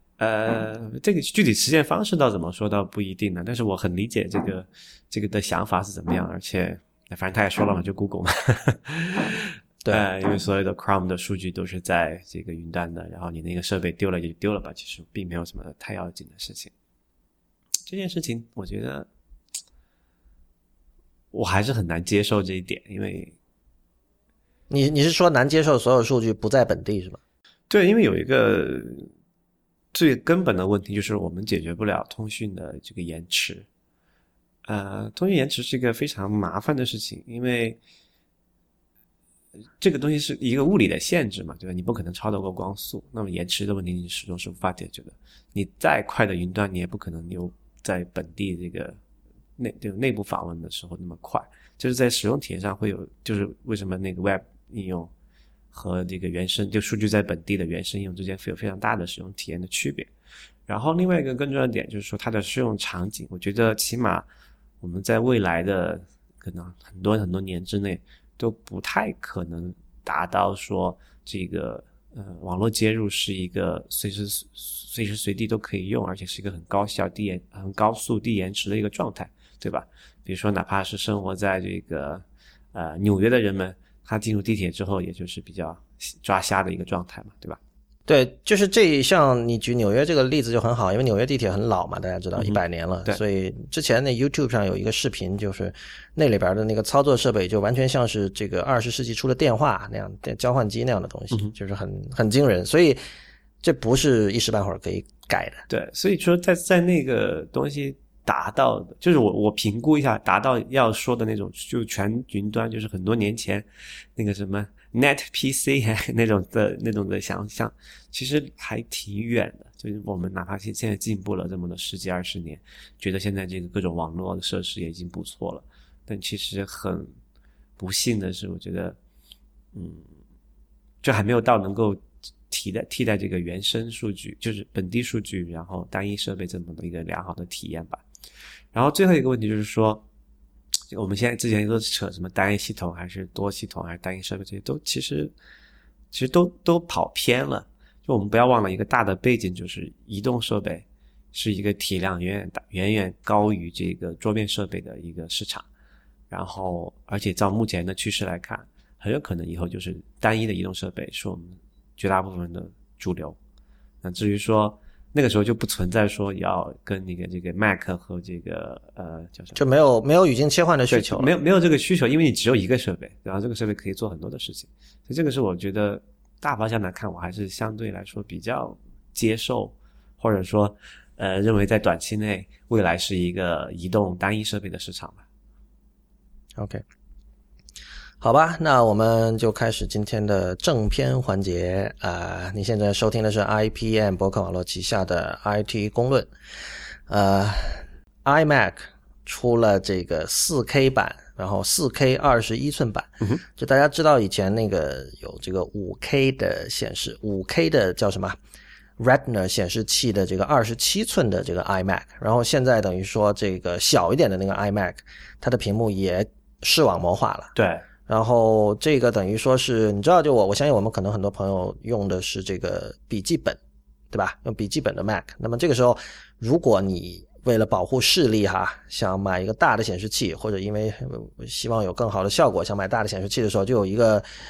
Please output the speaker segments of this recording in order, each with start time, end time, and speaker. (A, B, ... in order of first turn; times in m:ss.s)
0:00.2-0:16.7 A
0:17.8-0:19.1 A
0:21.3-0:23.3 A
0:24.7-0:27.2 B
0:27.7-0:29.1 A
0:29.9-0:33.6 A
0:34.6-0:37.8 A
0:39.8-0:49.0 A
0:49.6-0:55.1 A
0:55.7-1:00.1 A
1:00.7-1:04.2 A
1:04.8-1:27.6 A
1:28.1-1:43.0 B
1:32.4-1:33.2 A
1:43.6-1:45.6 B
1:45.7-2:07.1 A
2:07.8-2:09.0 A
2:09.7-2:10.0 A
2:11.0-2:18.0 A
2:18.7-2:20.0 A
2:20.9-2:25.3 A
2:26.1-2:35.6 A
2:36.3-2:43.4 A
2:44.0-2:49.6 A
2:49.5-2:51.3 B
2:50.9-3:05.2 A
3:06.6-3:06.8 B
3:08.2-3:16.3 B
3:17.1-3:28.4 B
3:29.0-3:37.5 B
3:37.5-3:37.8 A
3:38.1-3:43.6 B
3:44.1-3:54.2 B